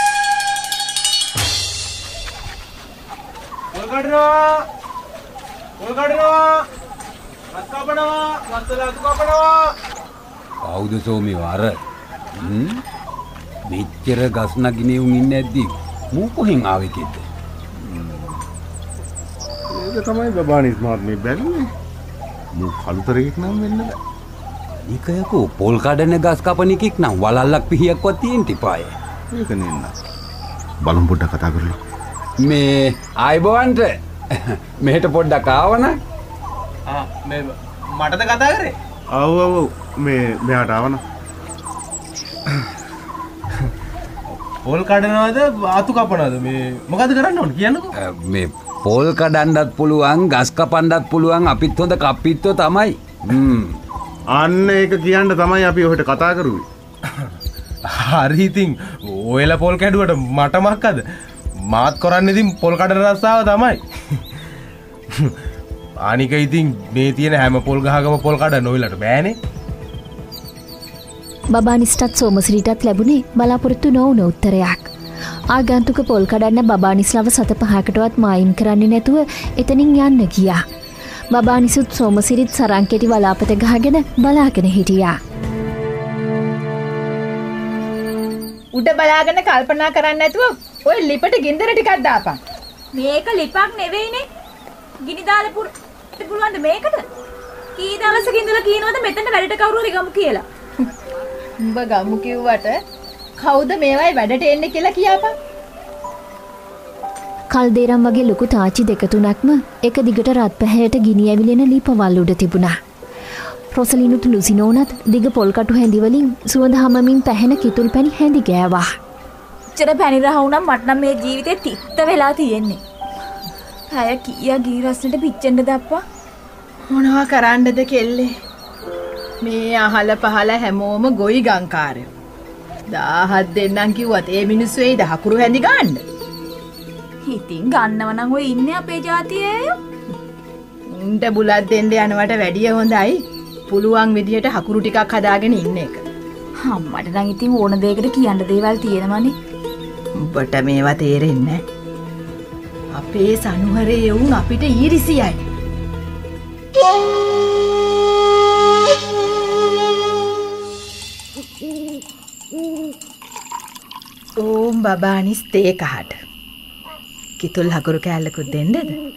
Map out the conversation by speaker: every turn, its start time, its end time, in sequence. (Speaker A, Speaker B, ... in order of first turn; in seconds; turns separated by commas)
Speaker A: 3.7-4.7, Speaker A: 5.8-6.7, Speaker A: 7.5-9.7, Speaker B: 10.6-11.8, Speaker B: 12.3-12.8, Speaker B: 13.7-17.2, Speaker C: 17.7-18.4, Speaker C: 19.7-21.7, Speaker C: 22.5-24.0, Speaker B: 24.9-28.9, Speaker C: 29.3-29.9, Speaker C: 30.8-31.8, Speaker B: 32.4-36.0, Speaker A: 36.9-38.8, Speaker C: 39.1-41.0, Speaker A: 44.6-47.9, Speaker B: 48.0-53.7, Speaker C: 54.3-56.6, Speaker A: 57.9-61.0, Speaker A: 61.7-63.8, Speaker A: 66.0-69.3, Speaker D: 71.5-74.9, Speaker D: 75.5-80.6, Speaker D: 81.3-85.2, Speaker E: 88.7-92.4, Speaker F: 92.9-94.2, Speaker F: 95.0-97.0, Speaker F: 97.8-100.4, Speaker E: 101.6-102.8, Speaker E: 103.4-105.3, Speaker D: 107.5-112.8, Speaker D: 113.7-118.9, Speaker F: 119.7-122.8, Speaker F: 123.9-126.0, Speaker E: 126.9-128.3, Speaker E: 129.4-132.1, Speaker E: 132.9-136.0, Speaker F: 137.3-139.7, Speaker E: 140.9-146.1, Speaker F: 146.6-149.3, Speaker E: 150.2-151.6, Speaker E: 152.9-155.4, Speaker E: 164.4-166.2, Speaker E: 167.4-169.0